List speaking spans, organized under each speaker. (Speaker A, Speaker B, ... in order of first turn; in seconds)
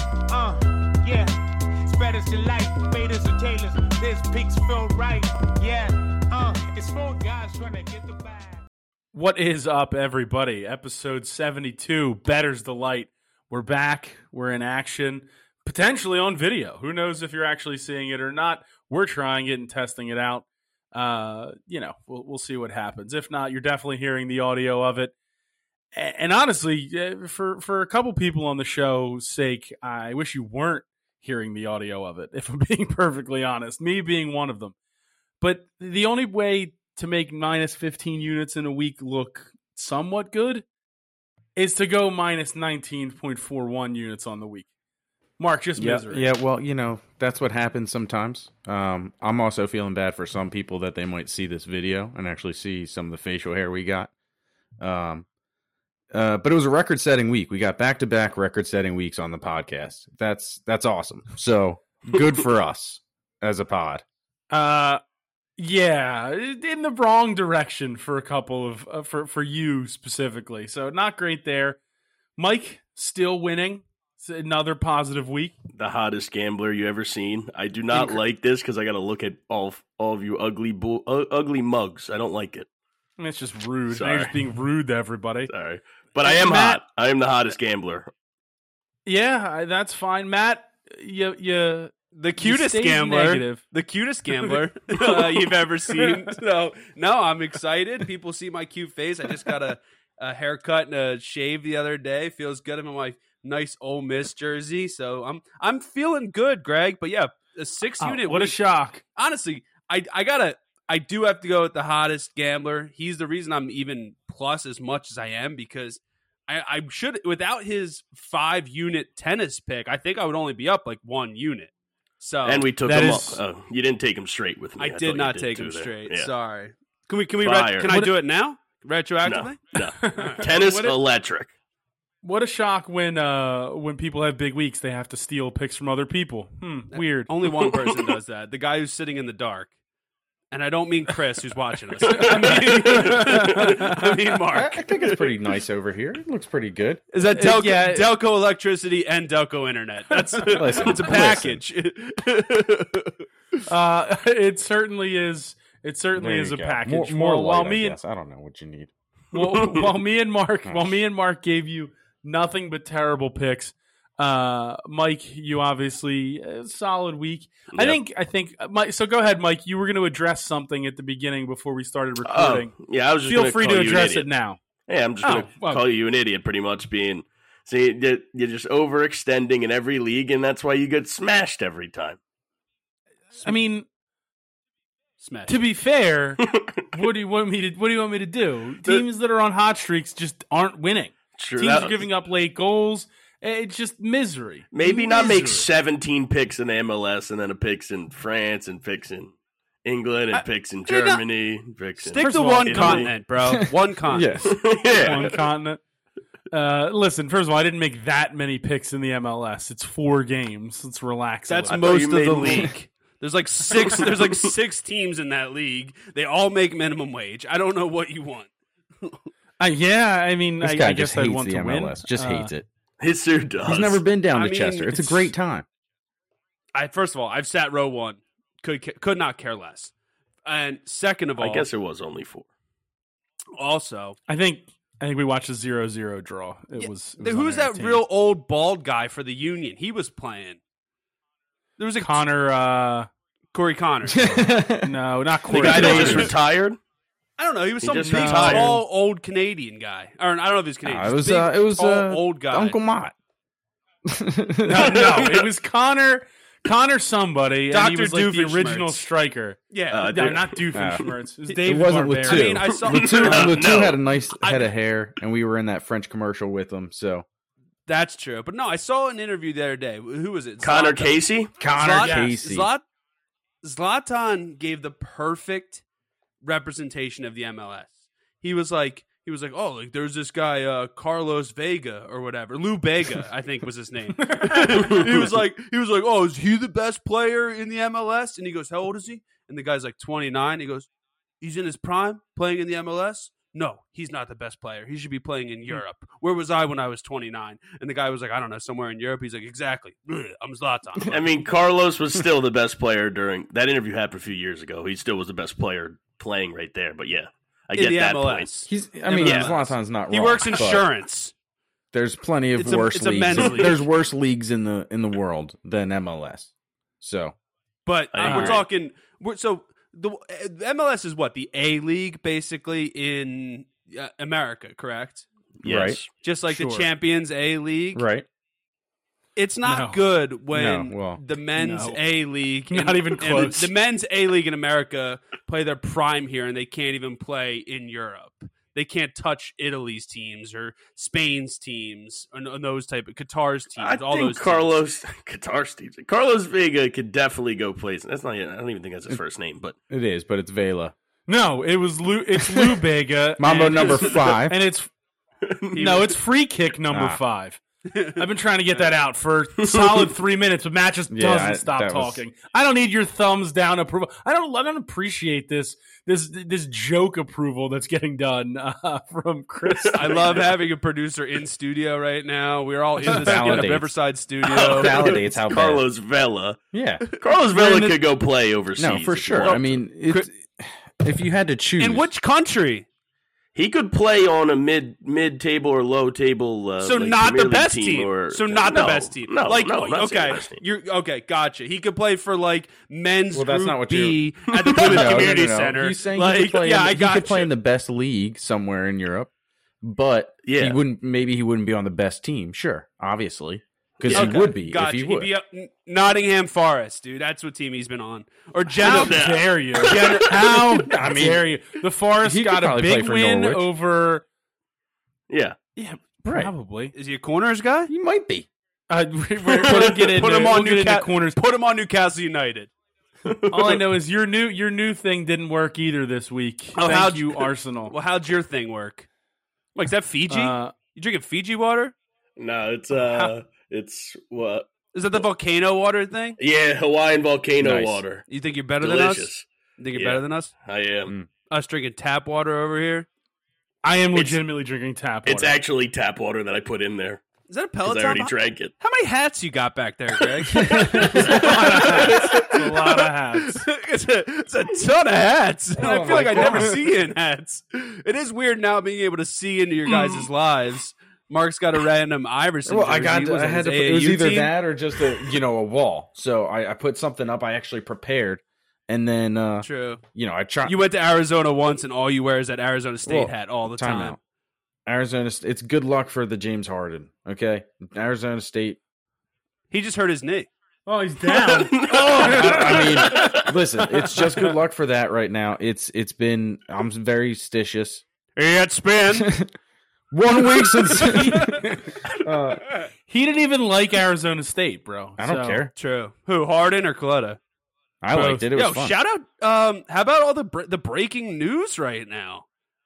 Speaker A: 0.3-1.3, 1.8-8.6
Speaker B: 9.1-25.1, 25.9-34.7, 35.4-40.6, 41.5-44.7, 45.4-46.3, 64.5-65.0, 65.6-71.8, 72.4-75.5, 77.9-78.2, 83.2-85.5, 86.2-86.8, 89.0-93.6, 94.4-96.4, 108.0-109.0, 122.8-123.4, 127.8-128.1, 129.9-131.0, 132.2-137.3, 142.0-144.1, 147.3-148.1, 150.2-150.9, 153.7-158.0, 159.3-172.7, 173.2-174.6, 175.2-175.8, 183.4-183.9, 185.5-195.7, 202.1-203.1, 204.6-205.8, 206.5-212.2, 219.6-222.5, 234.3-238.0, 242.0-243.1, 244.8-246.3, 248.0-248.8, 254.6-262.5, 263.2-263.5, 272.0-272.3, 284.2-285.1, 318.2-318.6, 326.5-326.9, 329.6-330.0, 331.6-332.0, 332.7-333.7, 351.3-354.9, 355.7-357.6, 358.1-370.4, 377.5-378.0, 408.8-414.2, 415.8-416.9, 418.9-421.4, 423.5-427.9, 430.3-430.7, 433.0-433.3, 443.8-445.6, 450.6-453.6, 455.9-456.8, 480.9-484.5, 490.9-491.9, 493.1-495.6, 498.1-498.4
Speaker C: 45.8-54.1, 54.8-55.2, 56.1-64.0, 144.5-147.0, 150.5-151.6, 156.2-158.9, 203.4-204.6, 220.6-222.7, 223.6-225.7, 244.1-244.9, 245.7-246.3, 250.8-253.1, 254.0-255.2, 260.7-261.1, 261.6-267.2, 271.6-272.7, 308.7-310.9, 311.9-317.4, 325.6-326.0, 327.9-328.3, 330.5-331.2, 349.9-350.9, 352.5-352.8, 353.4-354.6, 356.9-357.2, 361.1-362.2, 373.0-373.9, 374.5-375.9, 376.7-377.0, 378.8-382.1, 393.3-399.3, 399.8-405.3, 410.7-411.4, 412.2-413.6, 416.2-416.5, 417.9-418.5, 437.6-438.0, 455.8-456.8, 462.6-470.8, 473.0-474.2, 474.9-478.8, 482.0-488.0, 489.1-489.5, 490.1-492.7, 495.2-495.7, 498.0-498.9
Speaker D: 75.7-82.7, 83.9-84.3, 85.5-88.1, 122.4-126.3, 127.4-127.9, 129.2-131.5, 137.4-138.0, 159.4-159.9, 172.2-174.3, 174.9-182.2, 186.5-186.8, 191.4-192.1, 194.7-199.3, 199.8-203.1, 204.4-205.4, 211.7-212.7, 213.8-214.4, 223.0-224.0, 231.4-232.5, 245.5-246.8, 247.8-248.8, 254.9-255.5, 259.9-260.6, 262.7-264.0, 270.6-271.5, 284.8-285.1, 301.1-308.5, 309.2-309.6, 313.4-313.7, 318.1-318.6, 325.6-326.1, 343.8-349.8, 355.5-355.9, 359.6-360.0, 369.7-370.4, 374.4-376.6, 377.2-379.6, 383.5-390.6, 394.5-395.4, 400.4-400.8, 404.0-404.4, 408.8-410.4, 415.3-415.6, 419.6-419.8, 423.2-423.8, 432.4-435.2, 436.4-438.2, 438.8-441.1, 444.1-444.4, 445.2-447.2, 447.8-448.7, 450.5-452.6, 459.9-460.3, 481.3-483.5
Speaker E: 92.1-122.7, 124.8-130.4, 136.9-139.7, 140.5-145.3, 147.1-153.1, 185.2-185.6, 200.3-201.2, 202.0-204.3, 205.0-205.3, 211.5-218.5, 224.3-225.3, 226.8-229.9, 230.4-231.7, 233.6-234.2, 236.8-240.6, 241.8-242.2, 243.5-244.4, 245.6-246.3, 247.4-252.8, 257.7-259.1, 259.7-260.3, 262.2-263.6, 264.4-264.7, 267.9-272.8, 273.6-275.8, 276.4-290.9, 291.4-301.3, 307.7-311.3, 312.6-313.8, 317.9-325.3, 326.2-328.0, 329.4-344.8, 355.7-356.0, 357.9-358.2, 369.9-375.2, 379.4-380.3, 381.8-382.9, 386.8-397.5, 404.1-410.4, 416.9-417.9, 419.6-422.7, 426.8-429.1, 429.7-431.9, 434.9-436.4, 438.3-440.5, 441.5-443.1, 447.5-464.5, 469.6-470.0, 470.6-474.2, 479.7-480.5, 488.4-489.3, 490.6-491.3, 495.8-497.4, 498.1-502.4